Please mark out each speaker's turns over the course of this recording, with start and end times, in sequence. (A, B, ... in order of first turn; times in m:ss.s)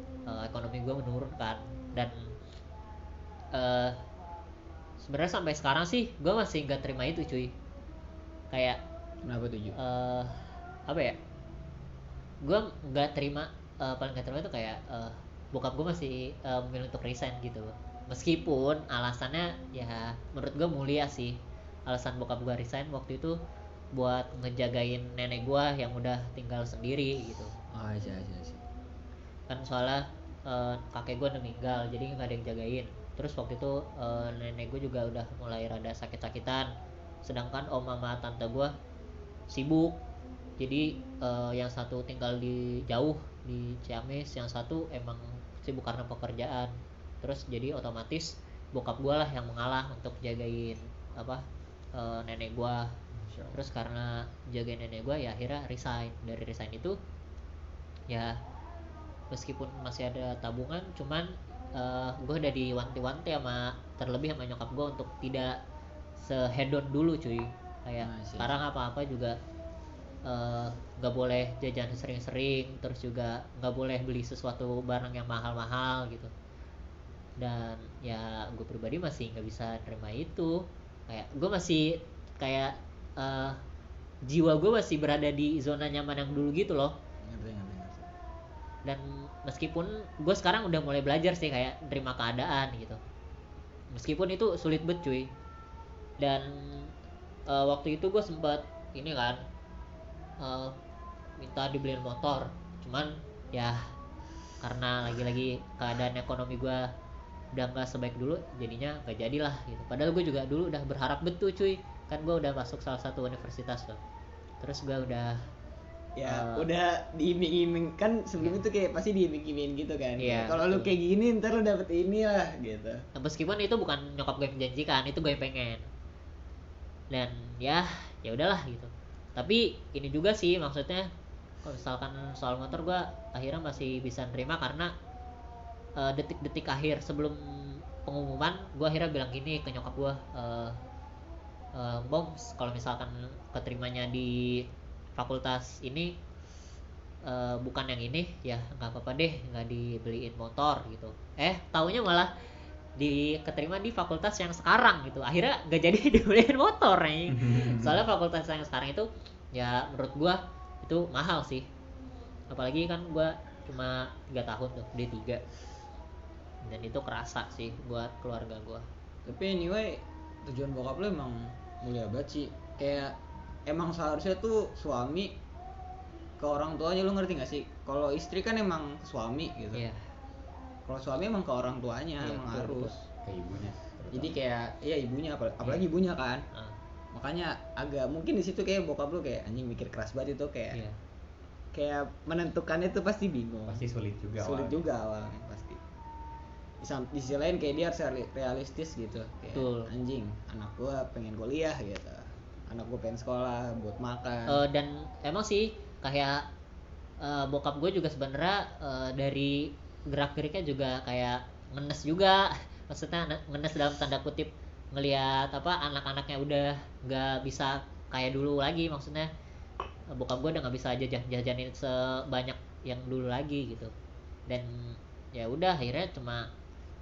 0:00.3-0:02.3 A
0:03.5-0:04.0 A
0:05.0-0:07.5 A
0:08.5-0:08.8 A
0:09.2-0:09.8 B
0:09.8-0:11.2 A
0:12.4-0:23.4 A
0:23.9-0:27.5 A
0:27.7-0:28.6 B
0:29.5-0:36.7 A
0:37.2-0:38.7 A
0:39.5-0:40.0 A
0:40.6-0:52.9 A
0:53.2-0:53.5 C
0:53.5-0:57.0 A
0:58.1-0:58.4 A
0:59.3-1:05.6 A
1:06.2-1:09.4 A
1:08.0-1:08.6 B
1:10.2-1:16.3 A
1:17.4-1:23.6 A
1:24.2-1:27.0 A
1:27.2-1:28.1 B
1:28.8-1:33.0 A
1:33.9-1:35.3 A
1:36.2-1:36.9 A
1:37.5-1:39.4 A
1:40.4-1:40.8 A
1:41.4-1:43.9 A
1:44.6-1:46.9 A
1:47.5-1:54.0 A
1:54.6-1:55.4 A
1:56.2-2:03.0 B
1:56.3-1:56.7 A
2:00.2-2:00.9 A
2:03.1-2:05.8 A
2:07.1-2:11.1 A
2:11.6-2:14.9 A
2:16.0-2:20.8 A
2:21.7-2:26.2 A
2:27.2-2:32.3 A
2:33.0-2:41.7 A
2:37.3-2:38.0 C
2:42.5-2:45.4 A
2:46.6-2:48.8 A
2:49.2-2:55.4 B
2:56.4-2:59.8 B
2:59.7-3:00.0 A
3:00.9-3:03.0 B
3:02.2-3:02.9 A
3:03.2-3:04.4 C
3:04.1-3:06.4 B
3:07.1-3:10.8 B
3:11.7-3:13.8 B
3:13.7-3:14.9 C
3:14.4-3:15.8 B
3:16.8-3:24.6 B
3:19.5-3:19.9 A
3:24.5-3:26.5 A
3:27.2-3:39.3 A
3:40.1-3:43.9 A
3:44.5-3:46.5 A